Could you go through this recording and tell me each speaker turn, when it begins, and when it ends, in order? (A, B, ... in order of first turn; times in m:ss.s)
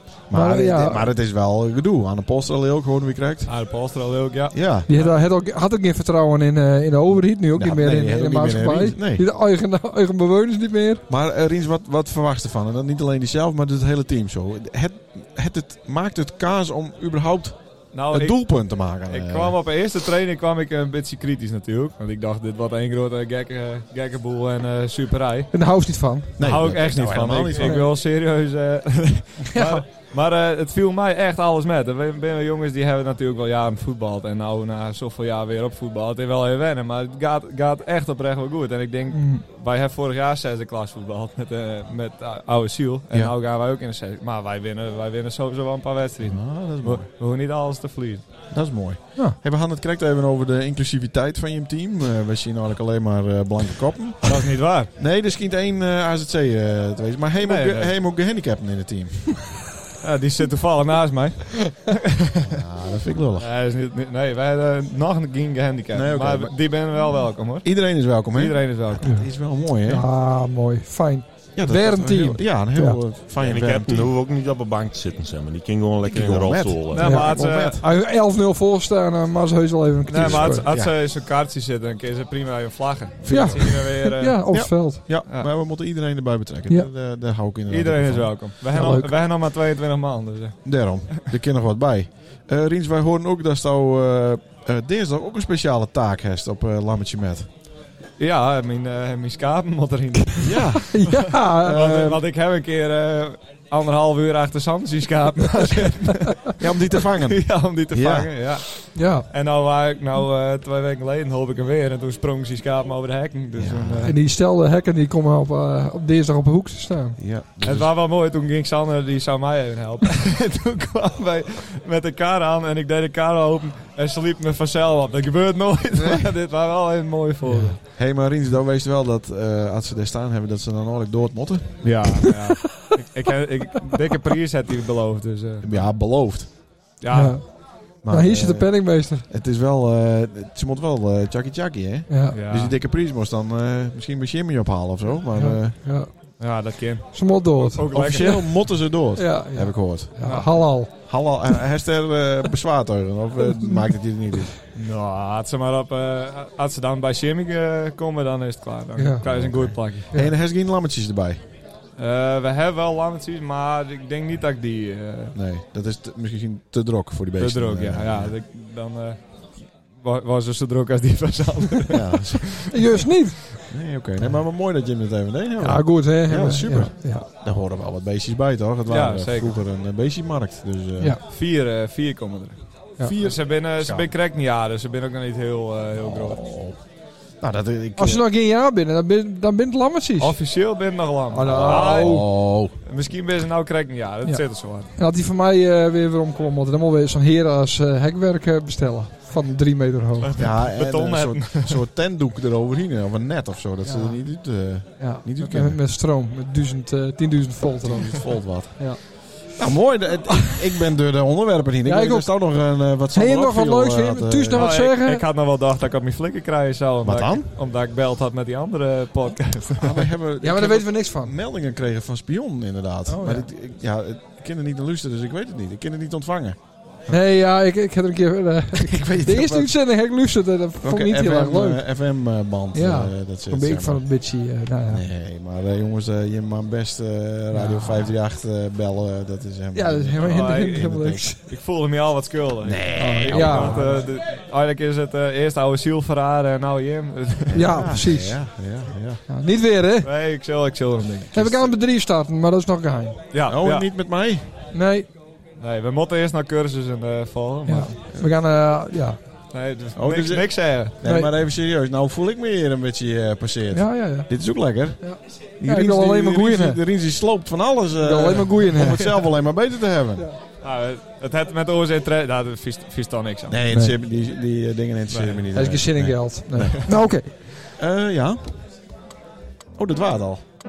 0:00.3-0:04.0 A
0:00.3-0:01.1 B
0:03.5-0:05.1 C
0:04.5-0:04.9 A
0:04.9-0:11.0 B
0:07.6-0:09.2 A
0:11.1-0:19.6 A
0:17.9-0:25.5 C
0:25.5-0:26.7 B
0:26.4-0:27.9 A
0:26.4-0:48.3 C
0:27.5-0:27.9 B
0:29.5-0:29.8 B
0:39.1-0:39.4 B
0:46.2-0:47.1 A
0:48.5-0:59.7 A
0:54.2-0:54.9 C
0:57.4-0:57.9 C
1:00.0-1:02.6 C
1:02.5-1:03.5 A
1:03.4-1:09.2 C
1:05.9-1:10.1 A
1:09.0-1:09.4 B
1:09.9-1:13.0 B
1:11.6-1:14.1 A
1:13.4-1:17.0 D
1:16.1-1:17.8 A
1:16.9-1:17.8 C
1:17.0-1:20.7 B
1:20.1-1:24.5 C
1:20.1-1:20.9 A
1:23.2-1:23.9 A
1:23.3-1:25.0 B
1:24.5-1:28.5 A
1:27.7-1:31.3 C
1:28.7-1:29.1 B
1:30.6-1:37.5 A
1:38.2-1:54.2 C
1:40.4-1:42.2 A
1:40.9-1:41.8 B
1:46.6-1:48.7 A
1:48.9-1:49.3 B
1:53.6-1:54.1 A
1:54.0-1:57.2 B
1:57.2-1:57.9 A
1:57.6-2:07.8 C
2:07.5-2:07.8 B
2:07.8-2:12.2 A
2:11.8-2:15.9 C
2:15.6-2:16.5 A
2:17.0-2:17.4 C
2:17.1-2:19.3 B
2:18.0-2:25.8 A
2:22.1-2:22.4 B
2:22.3-2:22.8 C
2:25.3-2:26.6 B
2:26.4-2:28.7 C
2:27.1-2:28.4 B
2:27.9-2:34.6 A
2:29.2-2:30.9 B
2:30.3-2:30.6 C
2:33.5-2:33.8 B
2:34.8-2:40.1 C
2:39.0-2:39.2 B
2:39.2-2:41.4 A
2:42.0-2:45.4 C
2:45.4-2:48.3 A
2:47.4-2:52.6 C
2:51.9-2:52.6 A
2:52.7-2:53.5 B
2:53.7-3:01.2 A
2:55.6-2:57.3 B
2:58.9-2:59.6 C
3:01.2-3:06.4 C
3:03.0-3:04.1 A
3:06.0-3:06.8 A
3:07.4-3:08.3 A
3:08.0-3:10.4 B
3:10.2-3:14.9 C
3:11.3-3:12.3 B
3:11.4-3:12.8 A
3:14.2-3:20.4 B
3:20.2-3:21.8 C
3:20.4-3:25.8 A
3:23.8-3:29.0 B
3:27.8-3:34.7 A
3:31.8-3:35.2 B
3:34.5-3:40.1 C
3:37.0-3:37.5 A
3:39.8-3:46.6 A
3:40.4-3:41.3 B
3:43.1-3:43.5 B
3:47.1-3:51.8 B
3:48.8-3:49.9 A
3:50.8-3:54.2 A
3:52.7-3:55.0 B
3:54.9-4:01.4 A
3:57.5-3:58.1 B
3:59.7-4:01.4 B
4:00.2-4:07.8 C
4:02.6-4:04.1 A
4:03.0-4:04.1 B
4:07.5-4:08.5 B
4:07.5-4:09.2 A
4:09.3-4:10.1 B
4:10.0-4:11.7 C
4:11.3-4:13.2 B
4:13.3-4:13.9 C
4:13.5-4:14.4 A
4:14.7-4:15.1 B
4:15.6-4:18.0 C
4:17.7-4:19.2 B
4:19.5-4:21.0 C
4:20.0-4:30.3 A
4:21.0-4:21.3 B
4:23.7-4:26.8 B
4:28.0-4:29.3 B
4:30.6-4:33.6 C
4:33.5-4:38.5 A
4:33.7-4:34.0 B
4:35.1-4:35.4 C
4:35.5-4:37.4 B
4:39.8-4:40.4 A